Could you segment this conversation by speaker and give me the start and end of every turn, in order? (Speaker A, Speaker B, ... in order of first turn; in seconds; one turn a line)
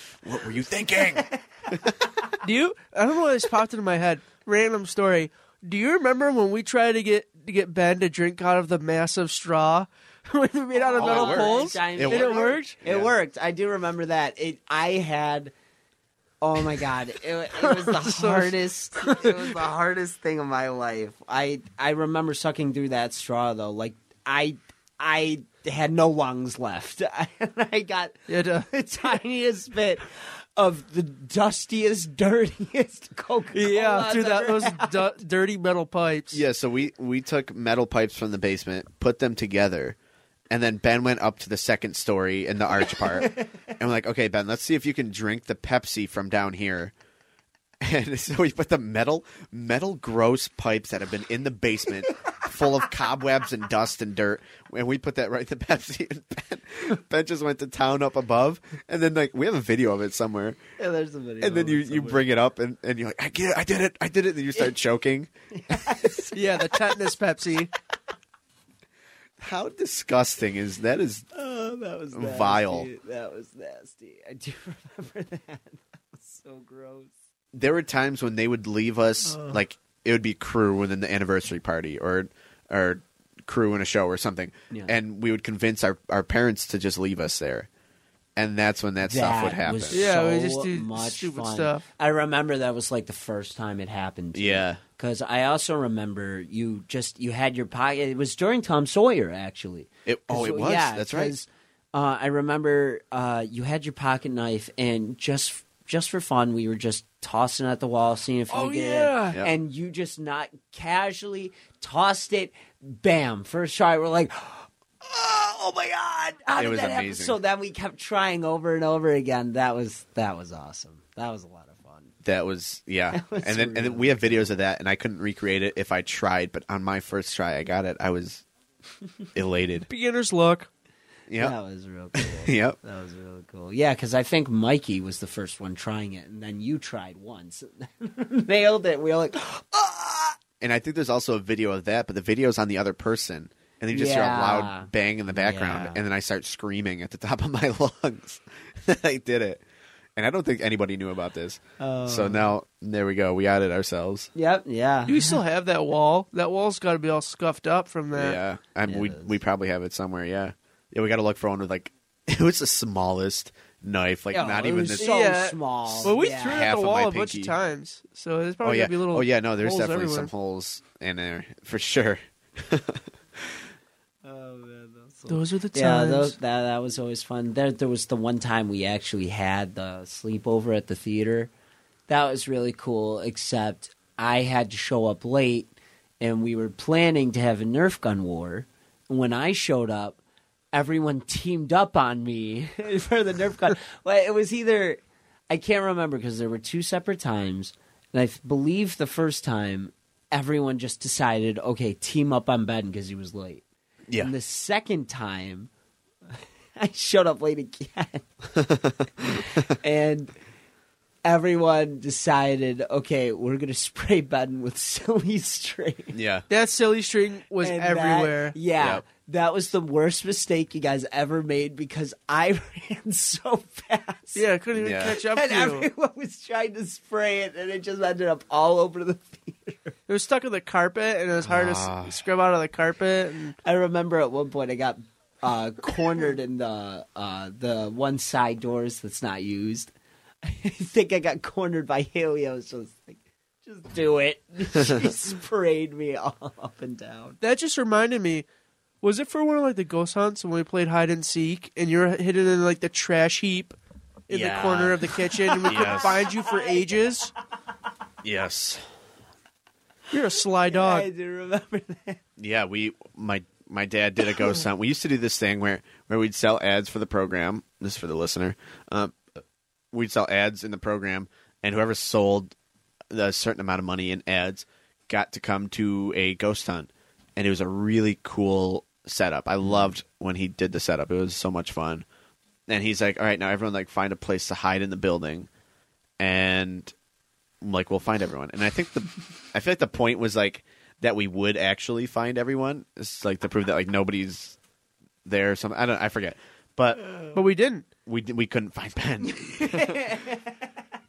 Speaker A: 0.2-2.2
Speaker B: 1.1-1.4
Speaker C: 2.4-12.8
Speaker B: 10.7-15.5
Speaker A: 11.0-13.1
Speaker B: 16.4-35.1
Speaker C: 17.6-19.5
Speaker C: 28.3-29.1
Speaker C: 33.5-36.4
Speaker A: 36.3-40.0
Speaker A: 40.5-46.9
Speaker B: 43.0-43.6
Speaker A: 47.8-60.6
Speaker B: 60.8-62.3
Speaker A: 61.4-66.1
Speaker B: 65.5-66.8
Speaker C: 66.3-67.7
Speaker A: 69.4-71.2
Speaker B: 71.3-77.1
Speaker A: 72.1-72.9
Speaker A: 77.5-87.7
Speaker B: 79.3-79.6
Speaker B: 84.7-85.0
Speaker A: 88.3-90.1
Speaker B: 89.0-122.1
Speaker C: 89.9-91.8
Speaker A: 94.3-94.8
Speaker A: 100.0-101.3
Speaker C: 108.5-109.4
Speaker A: 116.5-117.4
Speaker A: 122.2-128.4
Speaker B: 123.1-124.5
Speaker A: 129.3-129.9
Speaker C: 129.9-130.7
Speaker A: 131.3-131.5
Speaker B: 131.4-140.4
Speaker A: 132.2-132.8
Speaker A: 140.6-149.6
Speaker B: 143.9-146.0
Speaker A: 150.2-154.3
Speaker B: 151.8-152.5
Speaker B: 154.3-155.4
Speaker C: 155.1-158.4
Speaker A: 158.1-165.2
Speaker B: 158.8-159.3
Speaker B: 164.3-166.7
Speaker C: 164.9-170.3
Speaker A: 165.9-167.5
Speaker A: 168.6-173.6
Speaker B: 174.2-181.5
Speaker C: 175.3-176.3
Speaker B: 182.1-190.2
Speaker B: 190.7-203.6
Speaker B: 204.2-205.7
Speaker B: 206.3-208.3
Speaker A: 208.5-209.6
Speaker B: 209.2-210.3
Speaker B: 211.2-216.2
Speaker A: 216.1-216.4
Speaker C: 216.5-218.6
Speaker B: 217.6-224.4
Speaker A: 218.8-219.0
Speaker C: 224.3-225.9
Speaker A: 224.8-225.2
Speaker B: 225.2-229.9
Speaker C: 230.1-233.6
Speaker A: 231.4-232.1
Speaker B: 233.6-239.9
Speaker B: 240.4-247.4
Speaker C: 247.4-248.4
Speaker C: 249.0-253.8
Speaker C: 254.3-257.3
Speaker A: 254.3-255.0
Speaker B: 255.1-257.0
Speaker A: 255.6-256.2
Speaker A: 258.2-258.8
Speaker C: 260.1-261.1
Speaker B: 260.7-262.2
Speaker A: 262.4-269.2
Speaker A: 269.9-272.5
Speaker A: 273.1-282.0
Speaker A: 282.7-285.5
Speaker A: 286.2-286.9
Speaker A: 287.6-294.6
Speaker A: 295.2-297.1
Speaker C: 297.3-297.9
Speaker A: 298.1-300.2
Speaker B: 299.3-300.5